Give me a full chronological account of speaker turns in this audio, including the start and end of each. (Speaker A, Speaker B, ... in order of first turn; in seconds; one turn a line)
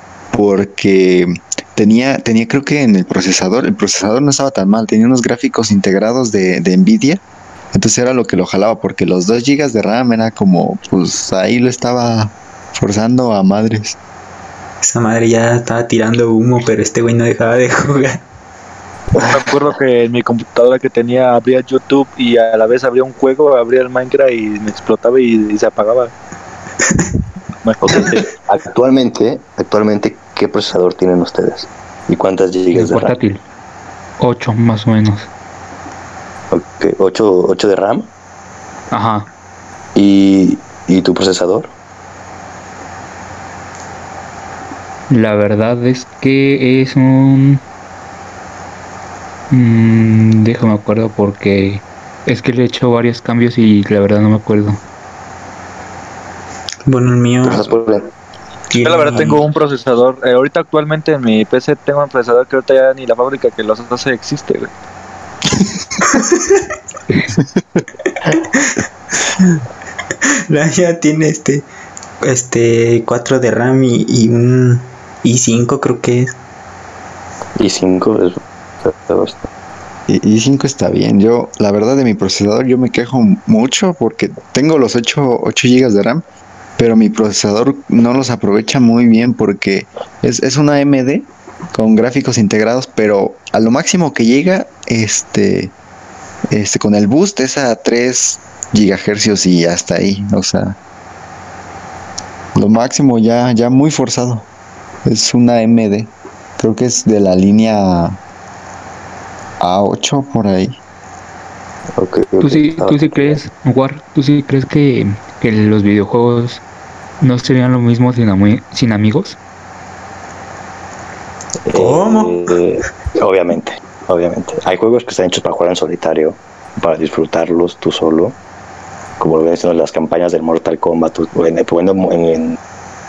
Speaker A: 0.3-7.2
Speaker A: 7.7-14.0
Speaker B: 14.8-18.2
Speaker C: 19.2-19.7
Speaker D: 19.2-26.1
Speaker D: 27.6-28.2
Speaker C: 27.8-33.1
Speaker E: 32.7-33.4
Speaker E: 34.2-35.3
Speaker C: 36.5-38.1
Speaker E: 38.9-39.3
Speaker C: 39.9-41.7
Speaker E: 45.1-47.6
Speaker E: 49.5-54.8
Speaker B: 56.9-57.6
Speaker C: 57.4-58.1
Speaker B: 58.7-59.4
Speaker D: 58.8-64.7
Speaker B: 66.1-66.6
Speaker A: 67.3-67.8
Speaker B: 68.3-68.7
Speaker B: 70.5-71.6
Speaker B: 72.2-76.3
Speaker C: 77.6-79.5
Speaker A: 80.1-86.2
Speaker A: 86.8-95.7
Speaker A: 96.5-100.8
Speaker A: 102.5-104.5
Speaker A: 105.0-108.2
Speaker A: 109.6-110.8
Speaker C: 112.0-113.4
Speaker E: 112.4-116.6
Speaker E: 117.2-119.4
Speaker C: 121.6-128.3
Speaker B: 121.7-122.5
Speaker C: 129.2-132.6